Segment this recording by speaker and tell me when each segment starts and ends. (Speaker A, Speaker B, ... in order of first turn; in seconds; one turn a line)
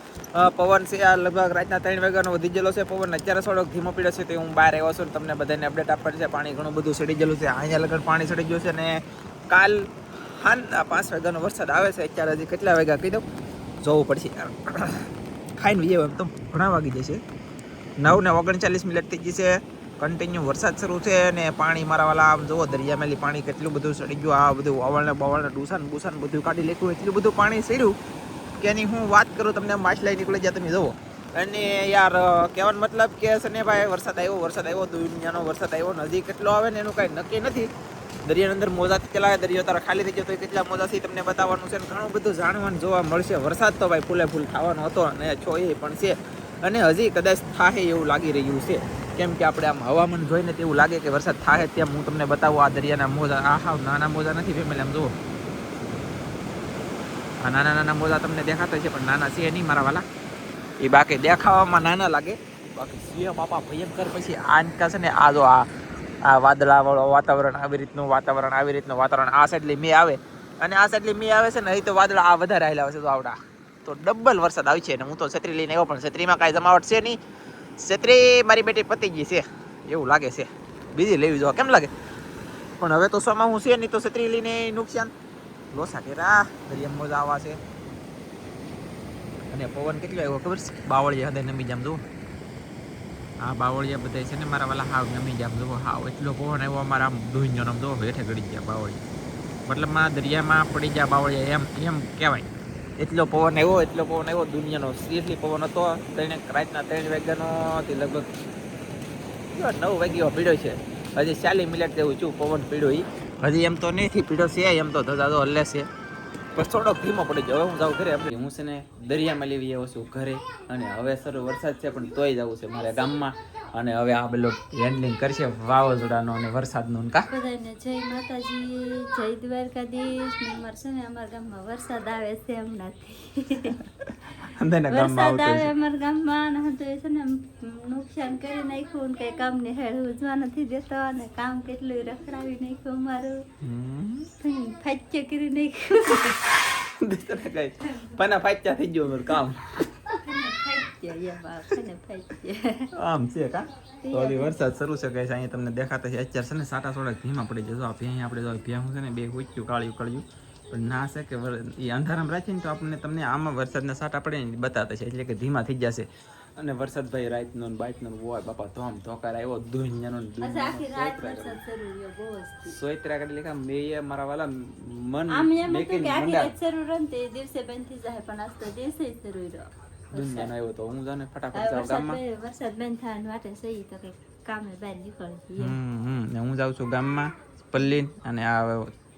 Speaker A: 0.3-13.2
Speaker A: 13.8-17.2
Speaker A: 18.0-27.9
Speaker A: 28.6-37.7
Speaker A: 38.2-55.1
Speaker A: 57.4-60.0
Speaker A: 60.8-65.7
Speaker A: 66.2-77.2
Speaker A: 77.8-81.9
Speaker A: 82.8-85.1
Speaker A: 85.7-87.6
Speaker A: 89.5-92.0
Speaker A: 93.4-99.0
Speaker A: 99.7-102.5
Speaker A: 103.0-108.3
Speaker A: 109.5-115.9
Speaker A: 116.5-127.3
Speaker B: 127.3-133.8
Speaker A: 134.0-135.7
Speaker B: 134.9-143.4
Speaker A: 143.6-144.3
Speaker B: 144.4-146.4
Speaker A: 146.7-149.7
Speaker B: 147.9-148.1
Speaker B: 150.1-152.9
Speaker A: 153.0-166.1
Speaker B: 154.0-154.6
Speaker A: 166.6-171.6
Speaker B: 170.4-172.7
Speaker A: 172.7-176.6
Speaker B: 175.3-180.5
Speaker A: 180.1-182.2
Speaker B: 181.5-185.8
Speaker A: 185.6-188.9